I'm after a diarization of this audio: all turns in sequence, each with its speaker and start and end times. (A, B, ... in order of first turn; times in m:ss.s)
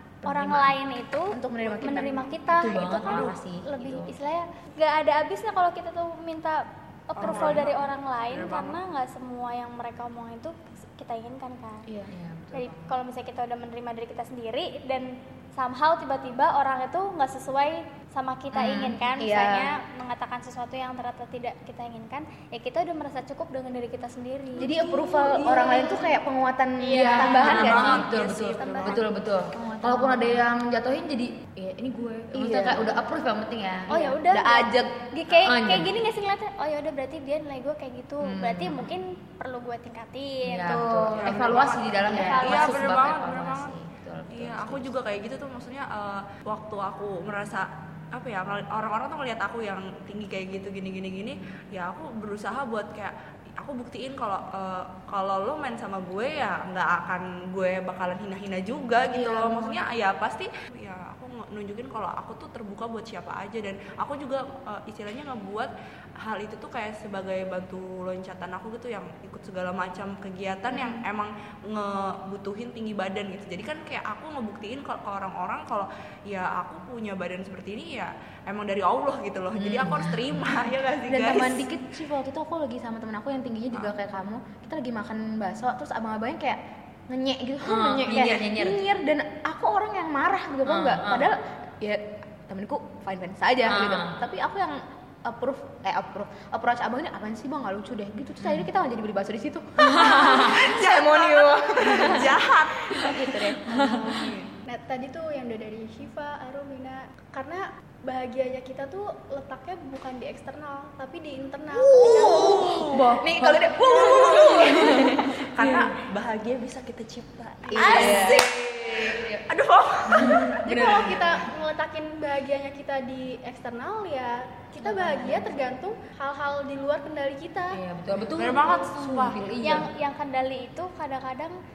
0:00.2-0:00.8 A
0:00.2-0:11.9 B
0:01.3-0:02.3 C
0:02.5-0:04.1 A
0:03.0-0:03.3 D
0:07.2-0:08.8 D
0:07.3-0:07.6 A
0:12.1-0:13.0 A
0:12.5-0:24.9 B
0:18.6-0:19.0 A
0:18.8-0:19.7 C
0:24.6-0:28.2 C
0:24.8-0:26.2 E
0:26.8-0:29.0 B
0:26.9-0:34.1 A
0:28.0-0:29.0 D
0:29.5-0:30.4 C
0:32.3-0:32.9 C
0:33.9-0:40.9 B
0:33.9-0:35.0 C
0:35.4-0:36.0 A
0:38.2-0:38.9 A
0:40.4-0:45.0 A
0:40.7-0:41.5 C
0:41.1-0:43.8 D
0:42.1-0:42.8 B
0:44.3-1:21.7 D
0:59.0-0:59.8 C
1:19.6-1:20.6 A
1:21.1-1:43.7 C
1:27.6-1:28.8 A
1:30.7-1:31.3 A
1:33.7-1:34.2 A
1:38.4-1:38.7 A
1:39.8-1:44.5 D
1:39.9-1:40.6 A
1:43.7-1:44.0 A
1:44.7-1:52.8 E
1:51.8-1:55.4 C
1:51.9-1:53.1 D
1:52.9-1:55.9 A
1:53.8-2:00.6 D
1:57.7-1:58.4 E
1:57.7-1:58.5 C
1:57.8-1:59.4 A
2:00.0-2:01.5 A
2:00.6-2:07.8 E
2:04.8-2:05.3 A
2:07.7-2:09.9 A
2:08.4-2:09.4 D
2:09.6-2:11.6 B